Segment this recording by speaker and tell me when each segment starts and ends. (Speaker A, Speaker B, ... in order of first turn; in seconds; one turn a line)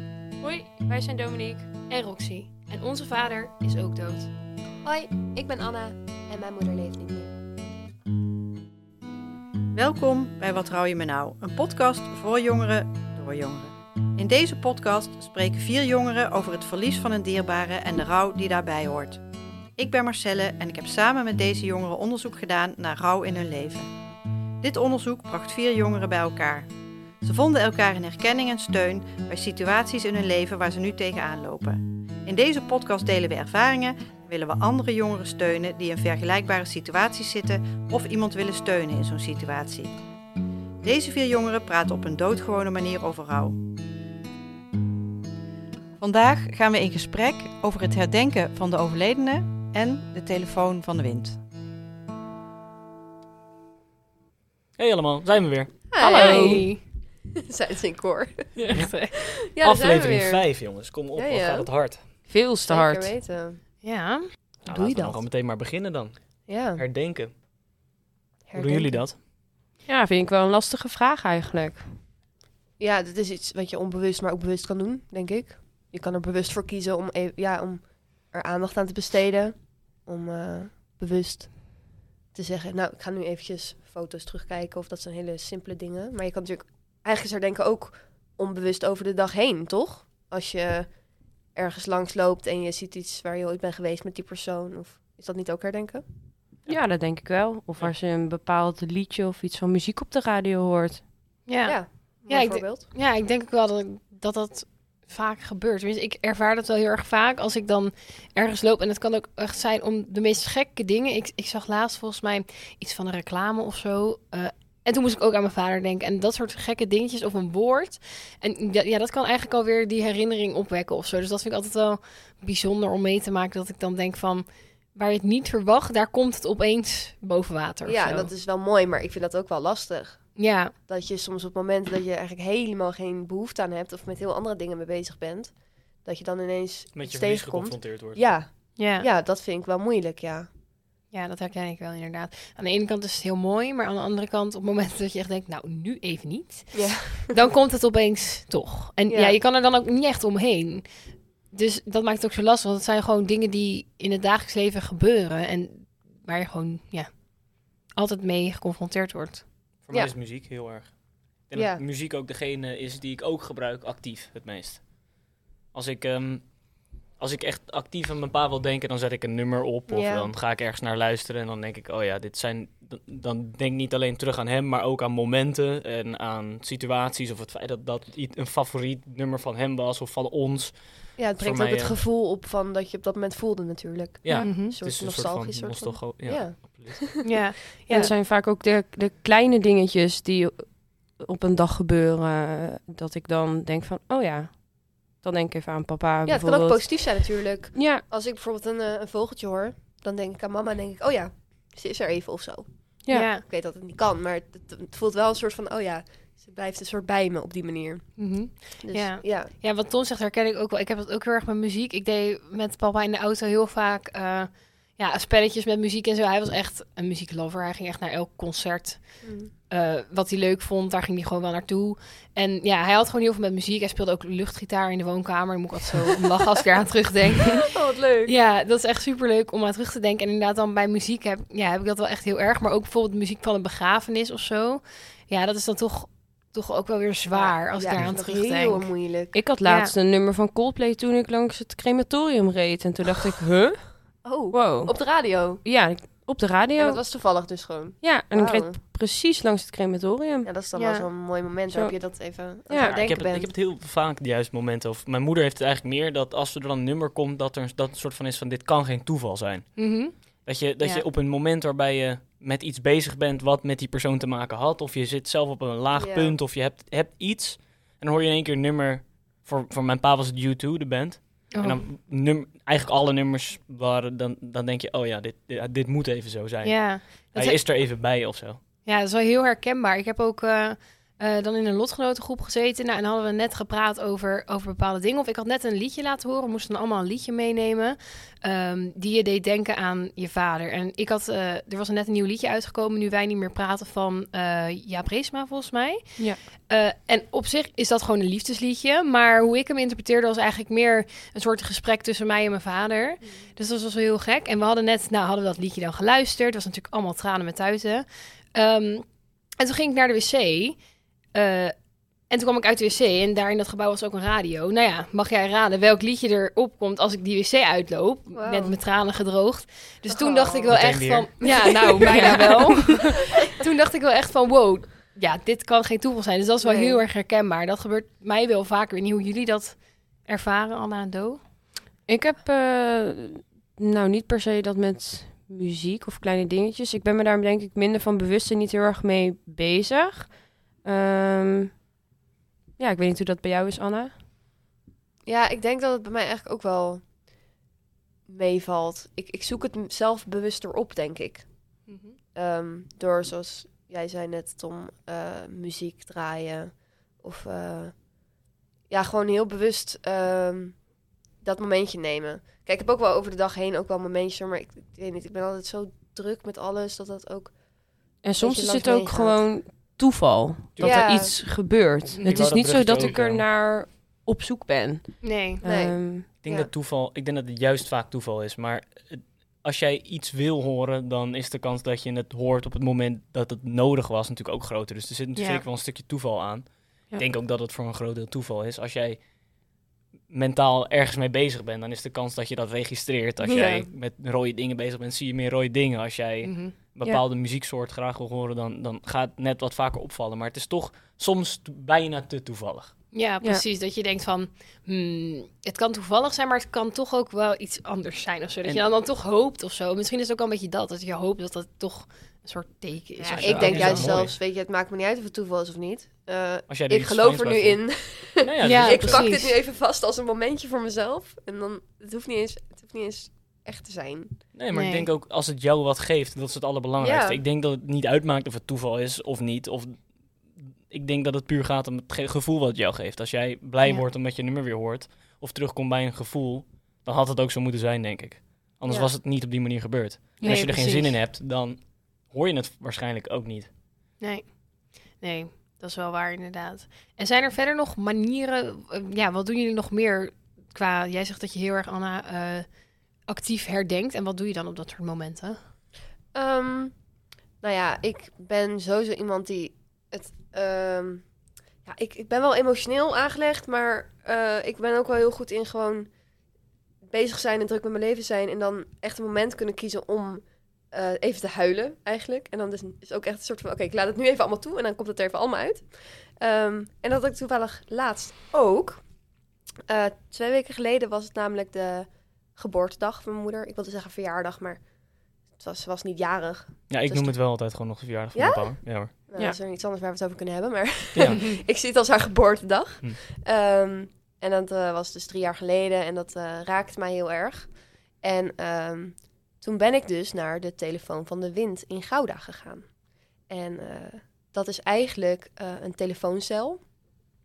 Speaker A: 0.4-1.7
Speaker B: 1.9-4.3
Speaker C: 4.8-7.3
Speaker D: 9.7-19.2
Speaker D: 19.8-23.9
Speaker D: 24.6-26.7
Speaker D: 27.2-40.0
Speaker D: 40.8-43.6
Speaker D: 46.0-51.4
Speaker E: 54.8-55.9
Speaker C: 55.9-58.7
Speaker B: 56.0-56.8
Speaker A: 56.1-56.5
Speaker B: 58.6-59.1
Speaker E: 58.7-62.1
Speaker C: 59.5-63.6
Speaker A: 62.2-63.1
Speaker B: 63.8-64.3
Speaker E: 64.7-67.3
Speaker C: 64.7-65.2
Speaker C: 66.5-66.8
Speaker C: 68.5-69.1
Speaker E: 68.5-69.2
Speaker A: 69.9-72.0
Speaker C: 72.8-96.0
Speaker E: 96.7-97.0
Speaker A: 96.7-101.1
Speaker B: 101.5-128.3
Speaker C: 101.7-102.9
Speaker C: 127.9-140.5
Speaker B: 130.4-130.7
Speaker E: 136.9-138.4
Speaker B: 138.8-139.1
Speaker B: 141.1-159.5
Speaker C: 146.7-147.4
Speaker C: 149.1-149.4
Speaker E: 159.8-182.0
Speaker C: 161.5-161.8
Speaker C: 169.9-170.3
Speaker C: 181.2-188.1
Speaker E: 184.2-187.1
Speaker B: 184.4-184.7
Speaker B: 187.2-188.1
Speaker A: 187.9-198.0
Speaker C: 196.2-209.5
Speaker A: 203.1-203.3
Speaker B: 203.1-203.4
Speaker B: 208.2-227.7
Speaker C: 219.2-219.5
Speaker C: 227.6-228.3
Speaker B: 228.2-239.1
Speaker C: 237.3-239.3
Speaker E: 237.9-238.2
Speaker A: 239.3-247.0
Speaker B: 239.6-239.9
Speaker C: 244.2-245.6
Speaker C: 246.8-248.8
Speaker A: 248.0-250.5
Speaker C: 250.4-253.5
Speaker B: 250.8-251.1
Speaker A: 251.7-253.0
Speaker B: 252.8-253.2
Speaker E: 252.8-278.6
Speaker B: 259.8-261.1
Speaker C: 266.0-266.4
Speaker B: 271.5-271.8
Speaker B: 276.6-277.7
Speaker B: 278.9-310.8
Speaker B: 311.3-311.7
Speaker B: 312.2-331.4
Speaker C: 318.3-318.8
Speaker C: 320.1-320.9
Speaker E: 320.7-321.3
Speaker C: 321.4-322.4
Speaker A: 322.1-322.4
Speaker C: 326.6-327.0
Speaker A: 332.1-341.8
Speaker A: 342.8-344.1
Speaker C: 345.3-347.1
Speaker C: 348.3-369.6
Speaker B: 351.9-352.2
Speaker A: 368.2-376.3
Speaker E: 370.7-371.4
Speaker C: 370.8-371.4
Speaker E: 372.2-373.5
Speaker B: 375.2-375.6
Speaker C: 375.6-376.7
Speaker E: 376.4-389.7
Speaker B: 385.4-385.6
Speaker E: 390.3-403.0
Speaker C: 393.4-393.9
Speaker B: 396.4-396.7
Speaker B: 403.1-414.2
Speaker C: 413.2-424.4
Speaker E: 413.3-414.4
Speaker E: 416.7-419.3
Speaker B: 418.6-419.6
Speaker E: 424.5-443.7
Speaker B: 424.7-425.1
Speaker C: 427.0-427.4
Speaker C: 438.9-439.1
Speaker B: 440.4-441.1
Speaker B: 444.2-455.6
Speaker C: 456.3-457.1
Speaker C: 457.6-466.2
Speaker C: 467.0-479.3
Speaker C: 479.9-487.5
Speaker E: 486.9-489.1
Speaker C: 488.3-507.1
Speaker E: 491.1-491.4